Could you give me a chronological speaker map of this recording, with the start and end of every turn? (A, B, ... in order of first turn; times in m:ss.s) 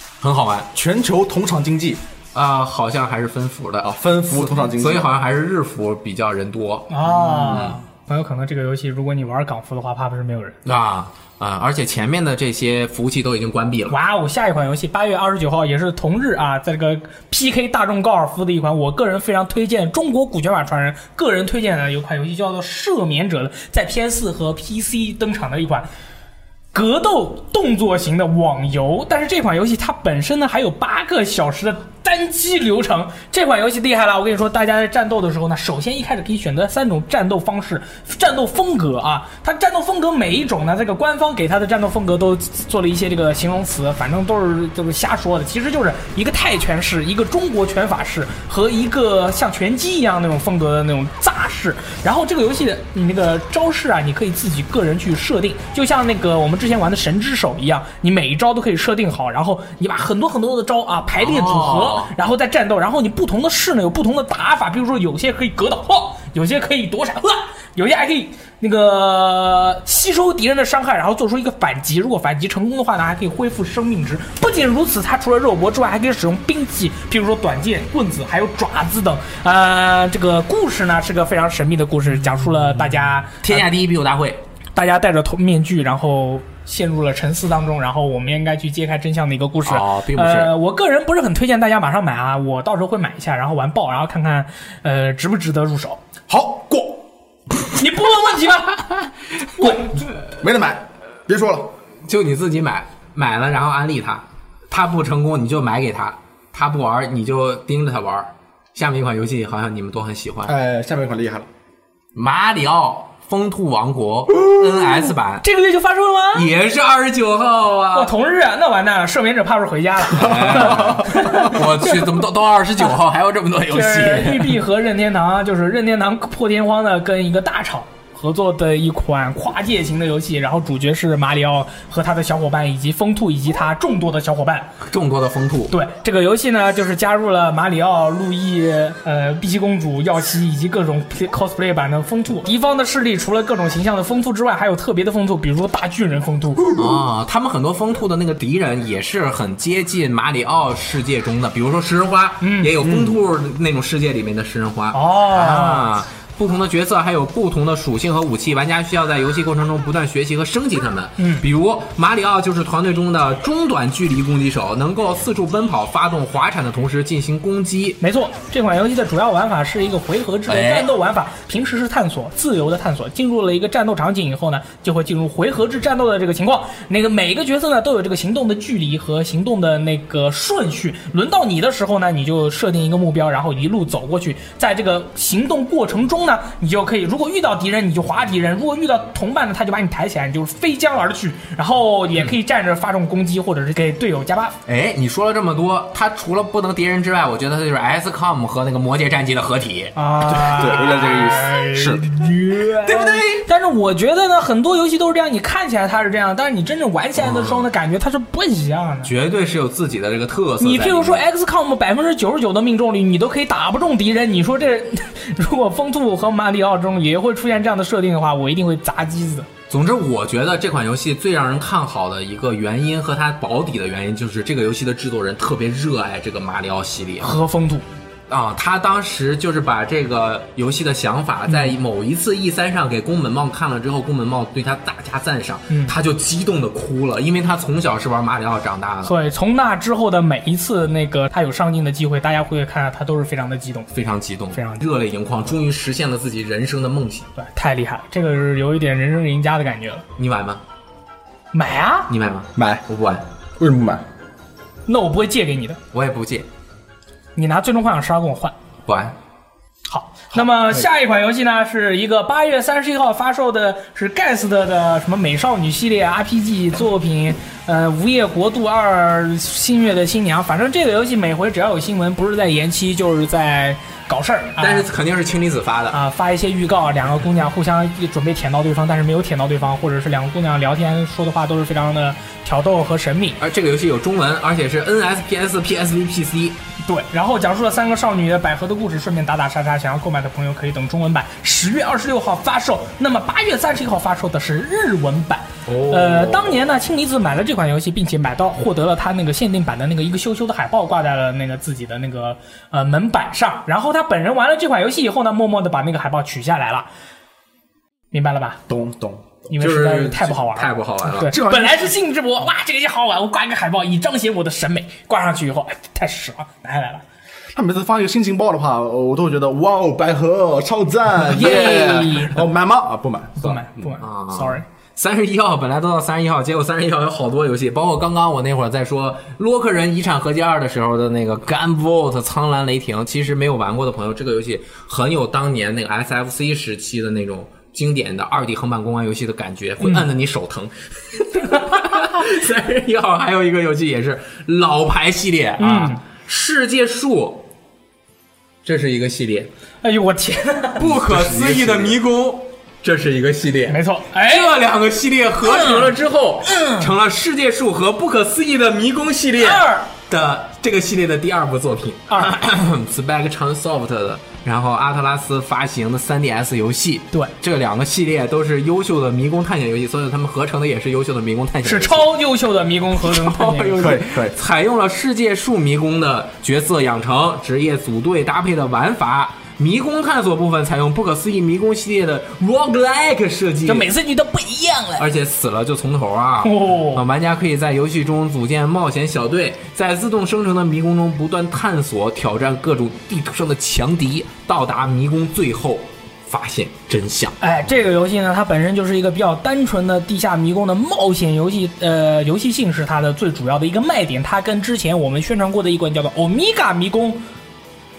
0:00.2-0:00.7 A
0:00.8-0:02.0 B
0:02.3-0:07.8 A
0:03.8-0:05.1 B
0:06.9-0:10.6 C
0:10.6-0:14.0 A
0:13.9-0:25.9 C
0:26.7-1:23.7 C
1:01.2-1:02.1 A
1:23.4-1:24.4 A
1:24.8-1:36.0 C
1:29.7-1:30.5 A
1:36.3-1:37.0 B
1:37.7-1:40.0 C
1:40.4-1:41.7 B
1:42.0-1:50.5 A
1:50.5-1:51.5 B
1:52.2-1:55.4 A
1:55.4-1:56.5 C
1:56.3-1:58.1 A
1:57.9-2:02.1 C
2:00.1-2:04.6 A
2:00.2-2:01.3 B
2:03.7-2:14.7 C
2:14.8-2:15.7 A
2:15.7-2:26.8 C
2:26.7-2:48.0 A
2:32.4-2:33.0 C
2:34.9-2:35.9 C
2:48.0-3:14.6 C
2:50.5-2:50.9 A
3:14.7-3:20.0 A
3:20.0-3:29.1 C
3:20.3-3:22.0 B
3:22.7-3:23.4 A
3:27.2-3:27.7 A
3:29.0-3:31.2 A
3:30.6-3:39.5 C
3:39.7-3:47.4 A
3:47.2-3:47.9 C
3:48.3-3:59.1 A
3:59.0-4:03.9 C
4:03.9-4:07.3 A
4:04.5-4:04.8 C
4:07.4-4:10.0 C
4:10.2-4:10.6 A
4:11.5-4:12.1 C
4:12.1-4:13.2 A
4:12.6-4:12.8 B
4:13.6-4:14.0 B
4:14.9-4:15.8 C
4:15.9-4:16.5 A
4:17.4-4:18.5 C
4:18.9-4:19.2 A
4:19.9-4:34.9 C
4:34.6-4:36.0 A
4:35.9-4:43.4 C
4:43.4-4:46.6 A
4:46.8-5:06.9 C
4:55.7-4:56.6 A
5:08.1-5:08.6 C
5:08.7-5:09.3 B
5:09.5-5:17.0 C
5:09.5-5:11.3 A
5:11.2-5:11.9 B
5:17.5-5:23.6 B
5:21.3-5:22.4 C
5:21.4-5:22.1 A
5:23.4-5:24.6 C
5:24.0-5:47.5 A
5:45.6-5:46.0 C
5:48.6-5:49.5 A
5:49.8-5:50.8 C
5:50.8-6:12.1 A
5:50.8-5:52.0 B
5:53.7-5:54.5 C
5:55.4-5:55.9 C
5:56.4-5:56.9 C
5:59.4-5:59.9 C
6:02.1-6:02.4 C
6:11.6-6:14.0 C
6:13.0-6:23.9 A
6:13.8-6:14.4 B
6:23.7-6:25.0 C
6:25.0-6:37.4 A
6:26.4-6:27.0 C
6:37.4-6:47.2 C